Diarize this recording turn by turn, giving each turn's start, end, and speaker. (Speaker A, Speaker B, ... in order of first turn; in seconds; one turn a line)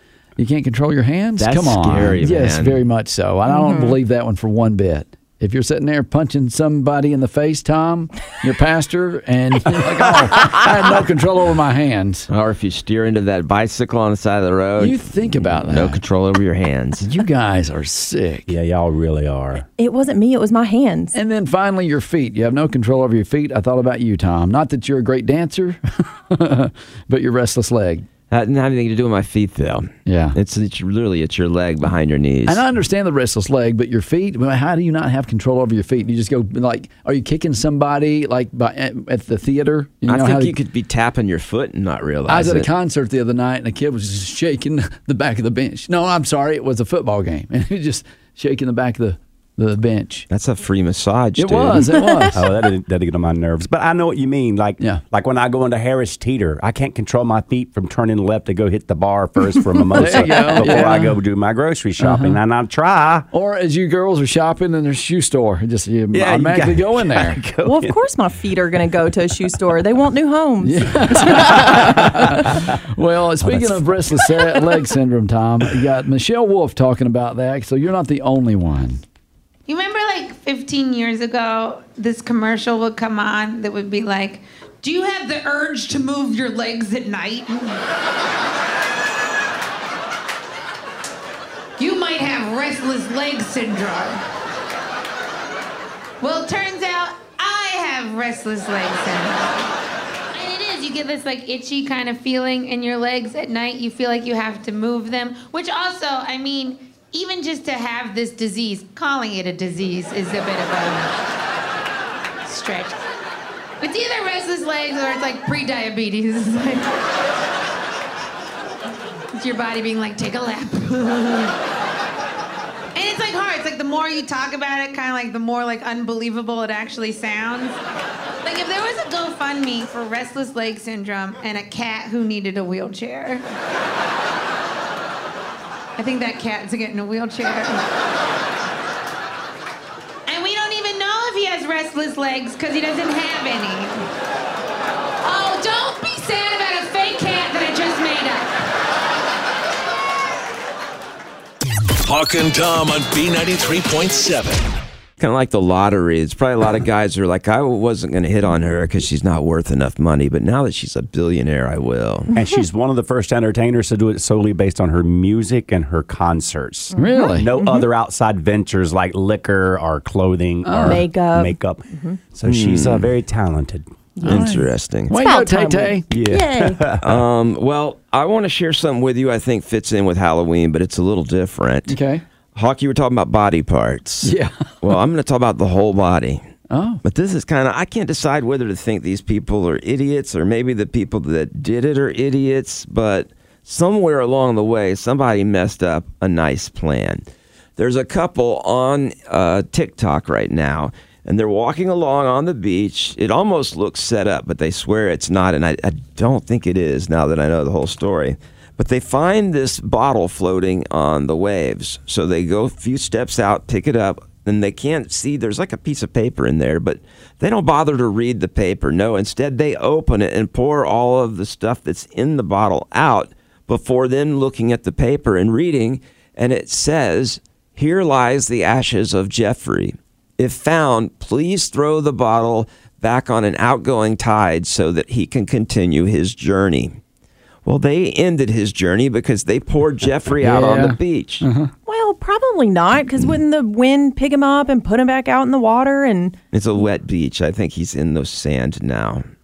Speaker A: 0.4-12.3
Speaker B: 1.4-2.8
Speaker C: 3.5-4.0
Speaker B: 12.3-17.0
Speaker A: 14.8-16.0
Speaker A: 17.0-18.5
Speaker D: 18.5-19.6
Speaker C: 19.8-21.1
Speaker A: 21.1-28.1
Speaker B: 28.3-32.6
Speaker A: 30.1-30.4
Speaker A: 32.5-40.5
Speaker B: 40.1-42.7
Speaker A: 42.3-50.2
Speaker B: 50.3-51.9
Speaker A: 51.4-52.4
Speaker D: 52.3-63.3
Speaker C: 59.9-61.0
Speaker A: 60.0-61.1
Speaker A: 62.0-62.4
Speaker A: 63.3-67.4
Speaker D: 66.1-68.0
Speaker C: 67.6-72.5
Speaker D: 68.9-69.6
Speaker A: 70.6-79.0
Speaker D: 71.6-72.2
Speaker D: 73.4-74.1
Speaker E: 79.7-87.8
Speaker E: 91.8-94.2
Speaker E: 96.2-99.7
Speaker E: 100.3-111.1
Speaker E: 112.4-113.0
Speaker E: 113.8-117.0
Speaker E: 119.3-121.5
Speaker E: 122.9-127.8
Speaker E: 128.4-133.4
Speaker E: 136.0-137.8
Speaker E: 140.3-144.1
Speaker E: 145.2-148.5
Speaker F: 152.0-154.7
Speaker B: 155.2-162.3
Speaker D: 162.3-173.9
Speaker C: 166.9-167.8
Speaker A: 166.9-167.5
Speaker A: 170.6-171.0
Speaker C: 170.8-172.2
Speaker B: 172.4-173.1
Speaker C: 174.2-174.5
Speaker A: 174.2-176.1
Speaker B: 174.2-175.1
Speaker C: 175.1-176.8
Speaker D: 176.1-177.2
Speaker B: 177.0-181.9
Speaker A: 181.9-182.2
Speaker B: 182.5-186.4
Speaker A: 184.2-184.7
Speaker A: 186.7-187.0
Speaker B: 187.0-197.2
Speaker B: 197.8-237.0
Speaker B: 237.6-241.4
Speaker A: 240.4-241.7
Speaker C: 241.9-246.3
Speaker B: 246.5-249.2